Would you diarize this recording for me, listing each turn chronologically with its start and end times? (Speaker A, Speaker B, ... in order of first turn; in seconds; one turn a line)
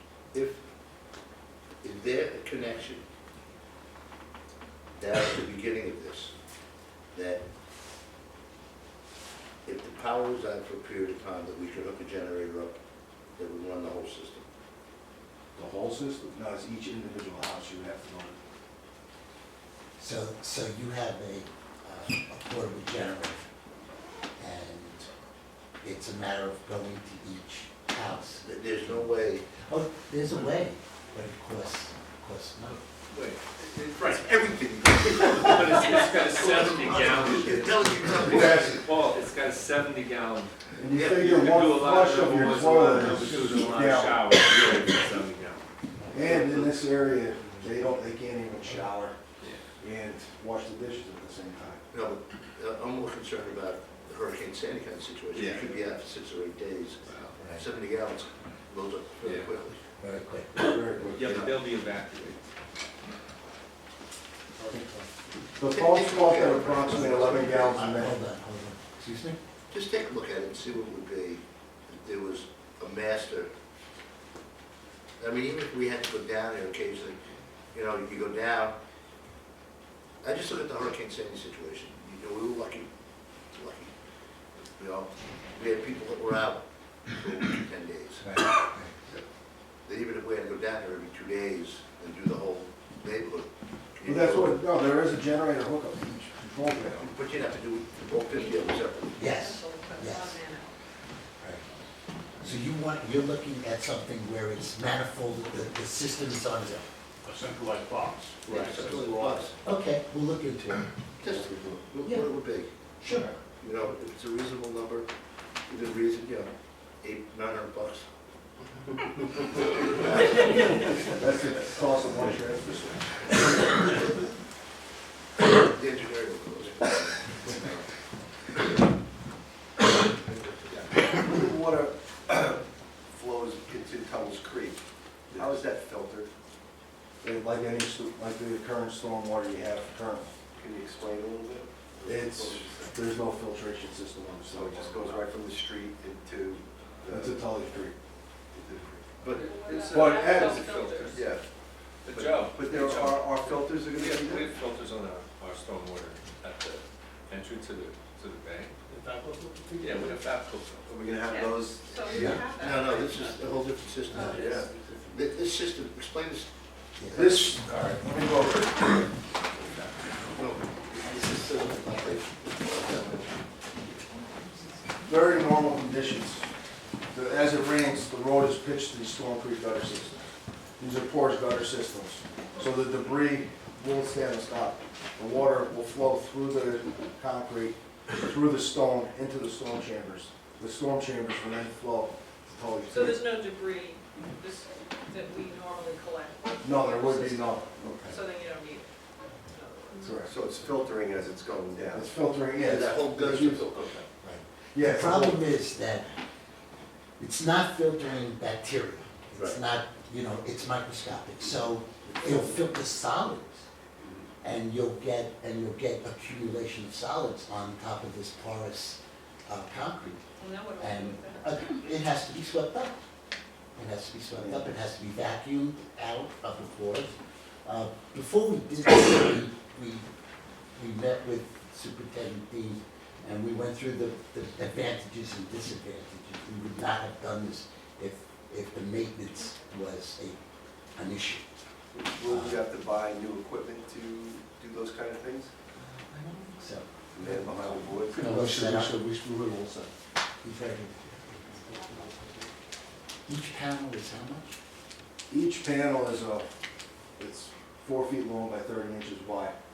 Speaker A: 0.3-0.6
Speaker A: 1.8-3.0
Speaker A: 5.0-6.3
Speaker A: 7.1-7.5
Speaker A: 9.7-12.8
Speaker A: 13.4-14.5
Speaker B: 15.6-18.4
Speaker C: 20.0-23.4
Speaker C: 24.4-25.1
Speaker C: 25.8-32.8
Speaker A: 28.4-29.5
Speaker D: 33.1-33.4
Speaker E: 33.6-35.9
Speaker D: 34.0-34.3
Speaker D: 35.1-40.5
Speaker A: 35.8-38.8
Speaker B: 38.2-38.9
Speaker B: 40.8-44.3
Speaker A: 40.9-41.6
Speaker D: 41.1-45.7
Speaker B: 46.1-49.2
Speaker B: 49.8-51.8
Speaker A: 51.9-59.9
Speaker D: 57.1-57.4
Speaker D: 59.2-59.5
Speaker C: 60.0-60.8
Speaker B: 60.5-61.6
Speaker D: 61.1-62.4
Speaker B: 64.7-65.1
Speaker B: 65.6-68.2
Speaker A: 65.7-67.7
Speaker C: 66.8-69.4
Speaker A: 69.7-73.5
Speaker A: 75.2-77.2
Speaker A: 77.7-78.8
Speaker A: 80.2-82.9
Speaker A: 83.5-83.9
Speaker A: 84.5-88.3
Speaker C: 88.2-89.0
Speaker A: 89.8-94.6
Speaker B: 94.0-97.1
Speaker A: 97.0-99.3
Speaker F: 98.3-100.8
Speaker C: 99.2-100.4
Speaker C: 102.4-106.9
Speaker G: 107.3-109.4
Speaker A: 108.5-109.6
Speaker C: 109.6-110.9
Speaker A: 111.2-112.7
Speaker C: 112.0-112.3
Speaker C: 113.0-113.3
Speaker A: 113.6-115.1
Speaker A: 115.7-116.5
Speaker A: 117.0-118.1
Speaker B: 121.0-123.7
Speaker A: 125.6-127.9
Speaker A: 130.1-130.8
Speaker E: 130.7-136.3
Speaker B: 137.2-140.4
Speaker E: 140.5-143.0
Speaker B: 142.1-145.3
Speaker E: 144.5-147.4
Speaker B: 147.1-147.9
Speaker E: 148.5-151.4
Speaker A: 149.2-149.6
Speaker F: 149.3-151.3
Speaker D: 149.7-151.2
Speaker B: 149.9-150.6
Speaker D: 152.1-158.8
Speaker E: 152.1-154.5
Speaker G: 158.9-160.0
Speaker D: 159.8-160.9
Speaker E: 160.9-162.3
Speaker F: 161.2-164.8
Speaker C: 162.1-162.5
Speaker A: 162.2-166.5
Speaker C: 164.1-164.4
Speaker E: 164.2-164.9
Speaker C: 167.0-167.3
Speaker B: 167.1-169.1
Speaker A: 170.3-171.2
Speaker E: 170.9-173.3
Speaker A: 171.8-172.2
Speaker B: 175.0-176.5
Speaker B: 177.1-193.3
Speaker F: 192.9-198.9
Speaker B: 196.6-197.8
Speaker C: 197.8-198.2
Speaker F: 199.5-200.3
Speaker B: 200.0-200.3
Speaker E: 200.2-202.1
Speaker B: 201.9-203.7
Speaker A: 202.6-203.9
Speaker E: 203.7-204.1
Speaker C: 204.2-206.1
Speaker B: 204.7-205.4
Speaker C: 207.2-213.7
Speaker A: 209.3-209.6
Speaker C: 214.4-220.2
Speaker F: 220.4-221.6
Speaker C: 220.8-223.0
Speaker C: 223.8-227.1
Speaker C: 227.7-230.1
Speaker C: 230.8-240.4
Speaker C: 240.9-241.5
Speaker E: 241.9-245.5
Speaker C: 242.2-242.6
Speaker C: 245.8-249.0
Speaker E: 247.1-248.3
Speaker B: 247.7-249.9
Speaker C: 250.4-252.1
Speaker C: 253.3-254.6
Speaker B: 255.3-256.4
Speaker B: 257.2-259.6